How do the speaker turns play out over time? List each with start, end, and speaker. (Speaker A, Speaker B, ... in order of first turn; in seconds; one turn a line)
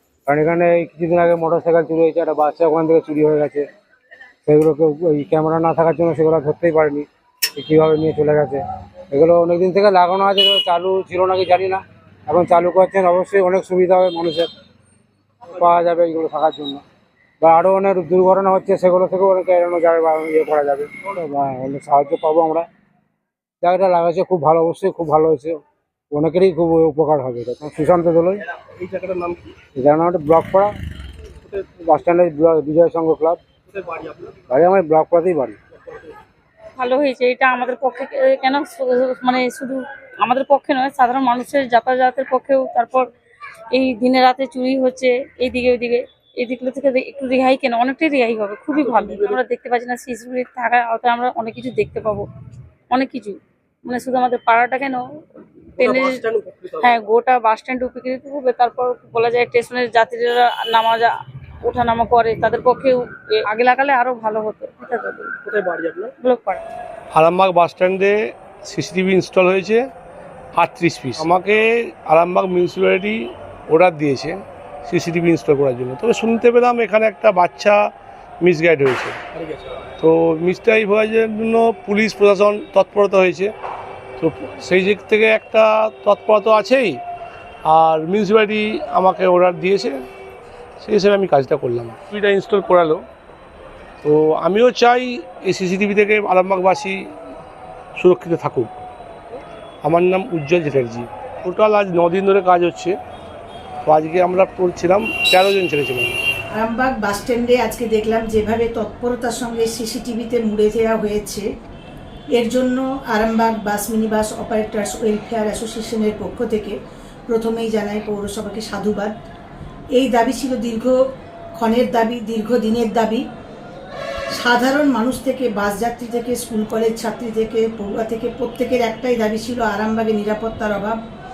Speaker A: 0.3-3.6
Speaker A: 4.5-8.6
Speaker A: 9.1-14.5
Speaker A: 15.5-16.8
Speaker A: 17.4-22.7
Speaker A: 23.6-28.4
Speaker B: 28.8-29.4
Speaker A: 29.8-30.7
Speaker A: 31.6-33.4
Speaker B: 33.7-34.2
Speaker A: 34.5-35.6
Speaker C: 36.8-43.1
Speaker C: 43.7-52.3
Speaker B: 48.8-49.3
Speaker C: 52.9-55.0
Speaker C: 55.8-56.2
Speaker B: 55.8-56.9
Speaker C: 56.8-65.3
Speaker B: 65.5-66.1
Speaker C: 66.2-66.6
Speaker D: 67.1-69.8
Speaker D: 70.6-73.2
Speaker D: 73.7-77.8
Speaker D: 78.4-79.2
Speaker D: 80.0-83.5
Speaker D: 84.2-87.0
Speaker D: 87.7-90.0
Speaker D: 90.8-93.0
Speaker D: 94.0-97.0
Speaker D: 98.0-98.7
Speaker D: 99.8-103.0
Speaker D: 103.8-106.2
Speaker E: 106.5-111.5
Speaker E: 112.3-116.8
Speaker E: 117.3-119.1
Speaker E: 120.0-121.0
Speaker E: 121.6-123.2
Speaker E: 124.3-131.0